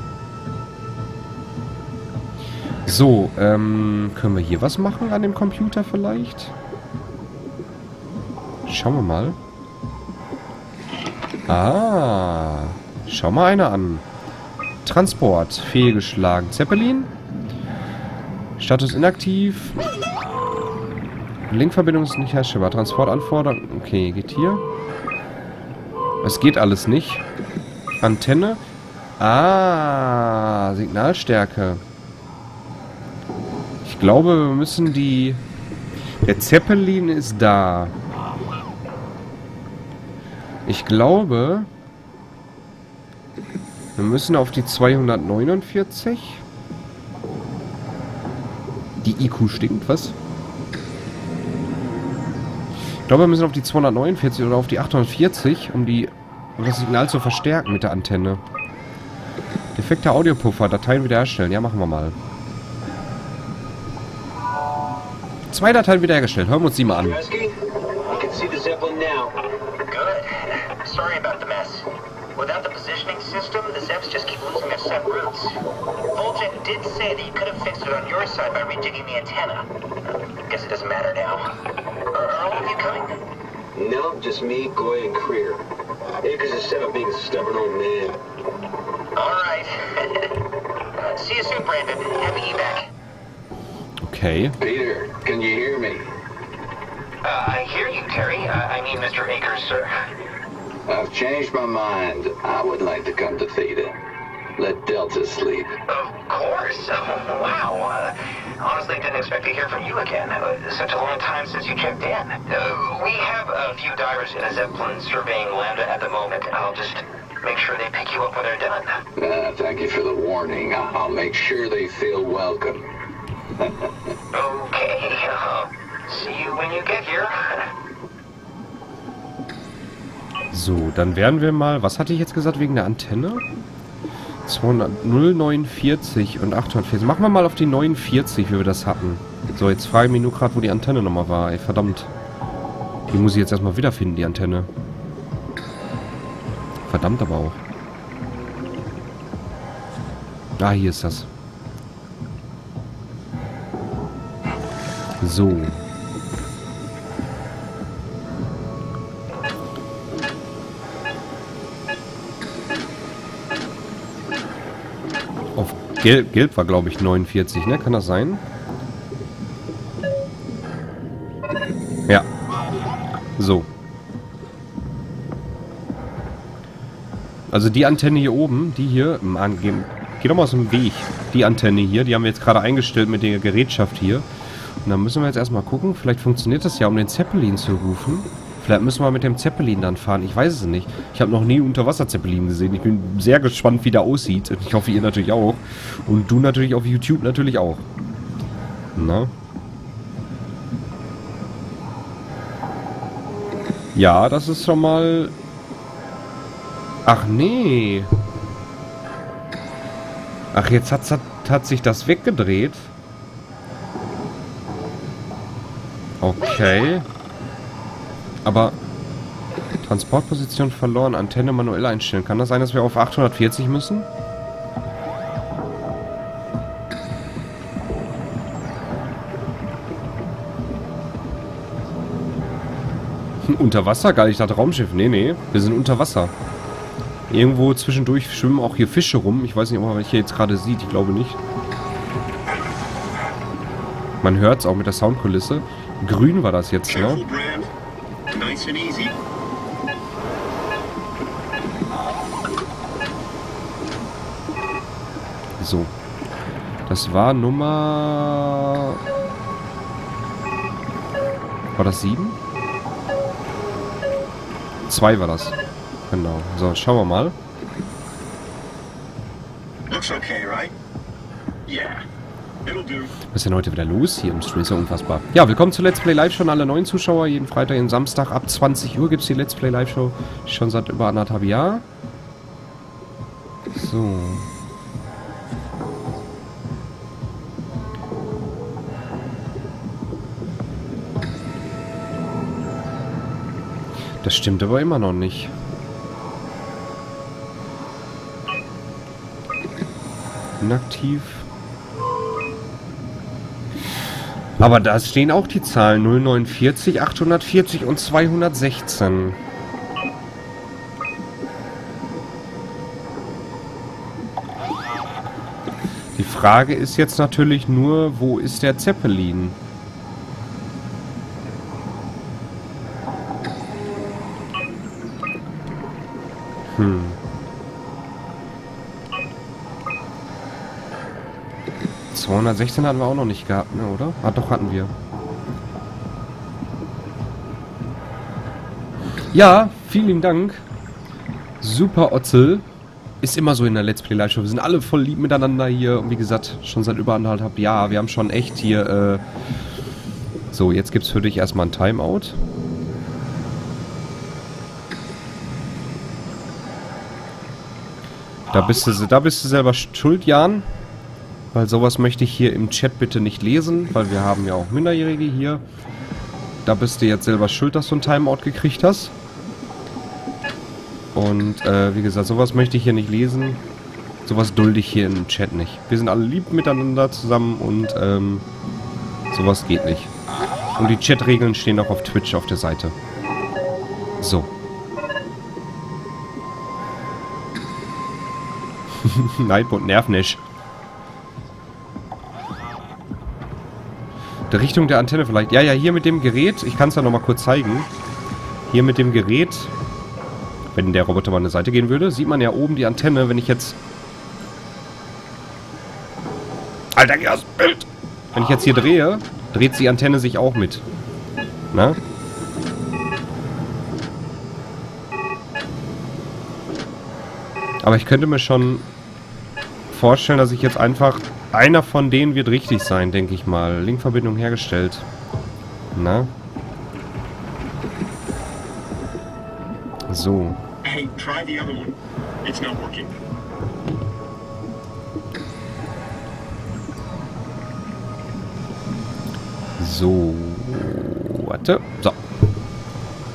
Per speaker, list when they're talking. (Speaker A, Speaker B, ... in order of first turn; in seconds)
Speaker A: 2.9-6.5, 8.7-9.4, 11.5-14.0, 14.8-17.1, 18.6-19.8, 21.5-24.6, 26.2-27.2, 28.0-28.6, 29.2-31.8, 33.8-35.4, 36.2-37.9, 40.6-41.7, 44.0-46.4, 49.0-50.1, 53.1-58.4, 59.7-62.1, 65.5-67.2, 94.0-94.5, 130.5-133.4, 134.4-142.1, 143.1-144.7, 146.9-147.6, 150.6-151.3, 155.2-155.8, 165.5-168.4, 173.4-173.7, 177.5-184.2, 184.8-197.8, 198.9-199.3, 203.9-205.3, 207.1-208.1, 210.5-212.9, 216.2-217.1, 218.4-218.8, 219.8-224.1, 233.4-236.3, 237.3-241.4, 244.2-247.2, 255.6-255.9, 256.9-259.0, 261.8-262.4, 264.9-265.6, 266.1-267.3, 273.3-281.8, 283.7-284.5, 294.2-295.5, 300.6-301.4, 304.6-309.4, 316.1-319.6, 326.7-327.2, 332.1-334.9, 339.3-340.6, 341.6-342.6, 343.2-349.2, 350.5-352.4, 358.5-360.7, 361.5-365.6, 366.6-369.1, 371.1-373.6, 374.2-378.4, 379.3-380.1, 380.8-382.9, 384.2-384.5, 389.0-390.4, 394.5-397.9, 398.7-399.7, 400.7-403.8, 406.9-410.8, 411.7-412.0, 417.8-418.9, 419.9-425.1, 425.9-426.3, 430.1-430.6, 439.8-442.2
Speaker B: 66.9-69.3, 83.8-85.6, 86.2-88.2, 94.6-96.1, 100.9-104.0, 104.6-105.8, 119.2-122.9, 123.6-123.9
Speaker C: 69.9-75.6, 76.1-79.7, 80.5-81.5, 82.1-83.1, 89.1-90.3, 91.0-92.9
Speaker D: 97.2-99.9, 105.9-119.0, 124.3-127.7
Speaker E: 246.9-247.7, 248.3-249.2, 269.9-270.7, 271.7-272.0, 272.6-273.1, 430.8-433.1